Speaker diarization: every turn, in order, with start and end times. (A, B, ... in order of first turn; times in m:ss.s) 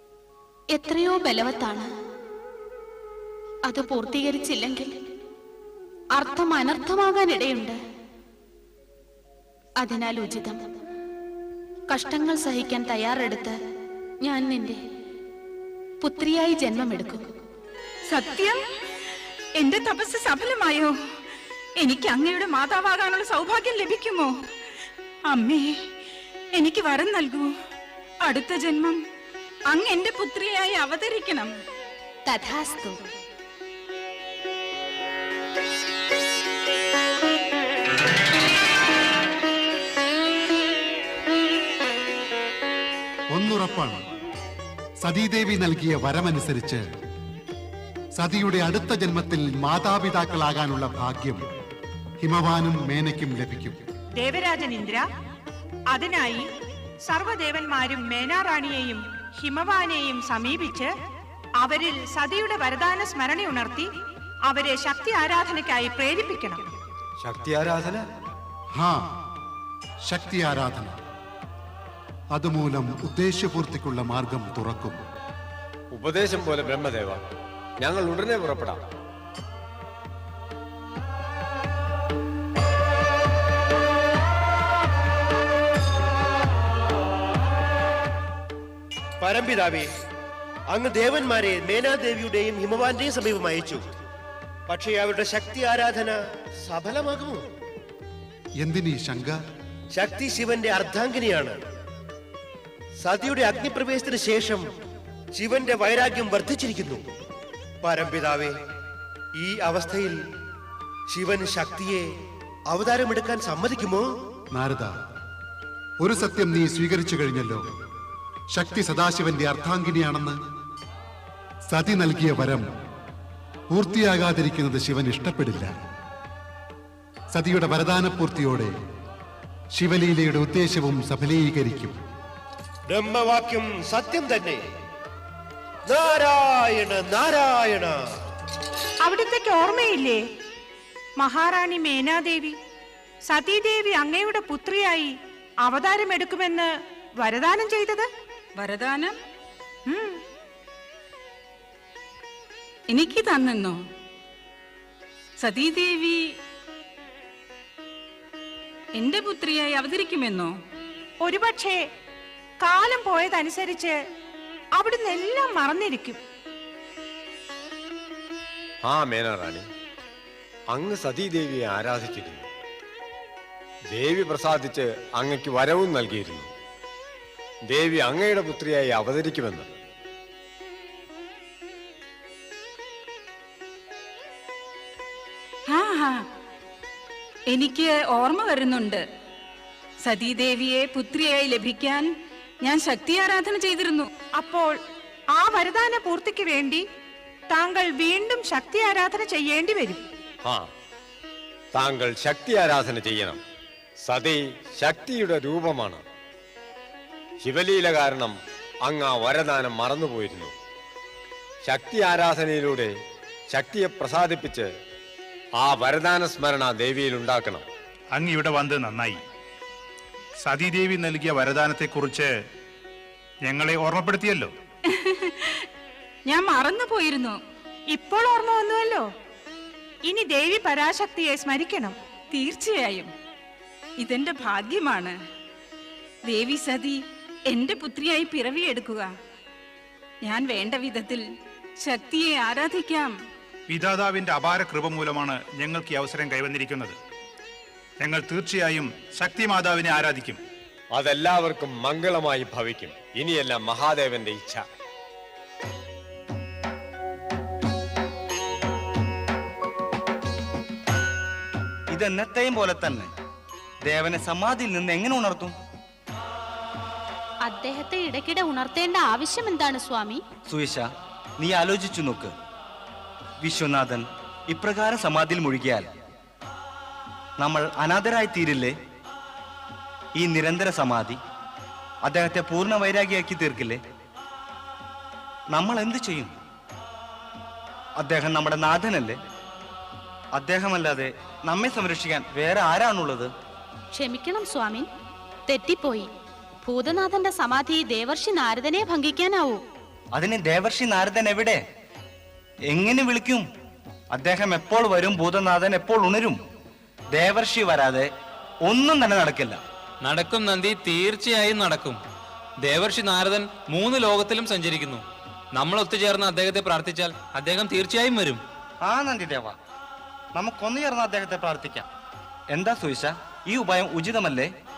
0:00.7-0:01.9 A
0:03.7-0:04.9 A
0:06.2-0:07.8 A
0:09.8-0:10.6 A
0:11.9-0:13.6 A
0:14.2-0:14.8 A
0:16.0-0:17.2 A
0:18.1-0:18.6 B
0:19.6-0:20.9 B
0:21.8-0:24.3 B
0:25.3-0:25.7 B
0:26.6-0:27.5 B
0:28.2-0:29.0 B
0:29.7-0:31.5 B
0:32.3-0:33.0 A
0:43.3-0:44.0 C
0:45.0-0:46.8 C
0:48.2-0:51.4 C
0:52.2-0:53.8 C
0:54.2-0:55.0 D
0:55.9-0:56.5 D
0:57.0-1:00.9 D
1:01.6-1:03.9 D
1:04.5-1:06.6 D
1:07.2-1:07.9 E
1:10.0-1:10.9 C
1:12.3-1:15.0 C
1:15.9-1:17.2 F
1:17.8-1:18.8 F
1:29.2-1:29.9 G
1:30.7-1:33.8 G
1:34.7-1:37.4 G
1:38.6-1:39.4 C
1:39.9-1:41.6 G
1:43.0-1:44.6 G
1:45.3-1:47.0 G
1:47.8-1:48.5 G
1:49.4-1:50.2 G
1:51.1-1:52.0 G
1:52.7-1:54.0 G
1:54.5-1:54.9 C
1:56.0-1:57.6 C
1:58.5-2:00.4 C
2:01.7-2:02.6 C
2:03.7-2:05.7 C
2:07.3-2:08.7 C
2:09.7-2:12.0 C
2:12.9-2:14.6 G
2:15.9-2:18.0 G
2:19.0-2:20.2 D
2:21.2-2:22.6 D
2:23.3-2:28.1 D
2:28.6-2:29.1 B
2:29.8-2:30.2 D
2:32.9-2:33.8 B
2:35.4-2:36.2 B
2:39.0-2:40.5 B
2:41.2-2:41.8 D
2:42.6-2:44.0 D
2:44.7-2:46.2 D
2:48.8-2:49.6 F
2:50.7-2:52.4 F
2:53.9-2:56.5 F
2:57.7-2:59.6 F
3:05.7-3:06.2 B
3:07.5-3:09.0 B
3:10.0-3:12.0 B
3:12.6-3:14.1 B
3:14.3-3:14.7 D
3:15.3-3:16.8 D
3:17.5-3:20.0 D
3:21.7-3:23.4 F
3:24.0-3:26.0 F
3:27.4-3:30.5 F
3:31.6-3:32.9 F
3:33.5-3:34.7 F
3:35.6-3:37.6 F
3:38.1-3:39.2 H
3:40.4-3:42.3 H
3:43.4-3:44.5 H
3:44.9-3:45.6 B
3:46.3-3:47.4 B
3:47.9-3:49.1 D
3:50.0-3:52.0 D
3:52.3-3:53.1 B
3:54.0-3:55.1 B
3:56.3-3:59.1 B
4:00.2-4:01.2 B
4:01.8-4:03.1 B
4:03.7-4:06.9 H
4:08.0-4:10.4 H
4:10.9-4:14.6 F
4:21.9-4:23.1 E
4:23.8-4:25.5 E
4:27.4-4:30.2 A
4:30.5-4:30.8 E
4:31.4-4:32.3 E
4:33.4-4:35.9 E
4:37.4-4:38.7 E
4:40.2-4:41.2 E
4:42.0-4:43.8 E
4:45.5-4:46.3 E
4:48.0-4:49.2 E
4:50.3-4:53.3 E
4:53.9-4:54.8 A
4:55.5-4:56.1 A
4:56.6-4:59.6 A
5:00.1-5:01.6 E
5:02.7-5:03.4 E
5:04.1-5:06.4 E
5:07.1-5:08.1 E
5:08.7-5:09.6 E
5:10.0-5:12.0 I
5:12.6-5:18.4 I
5:18.8-5:19.6 E
5:20.3-5:21.8 E
5:22.5-5:24.5 E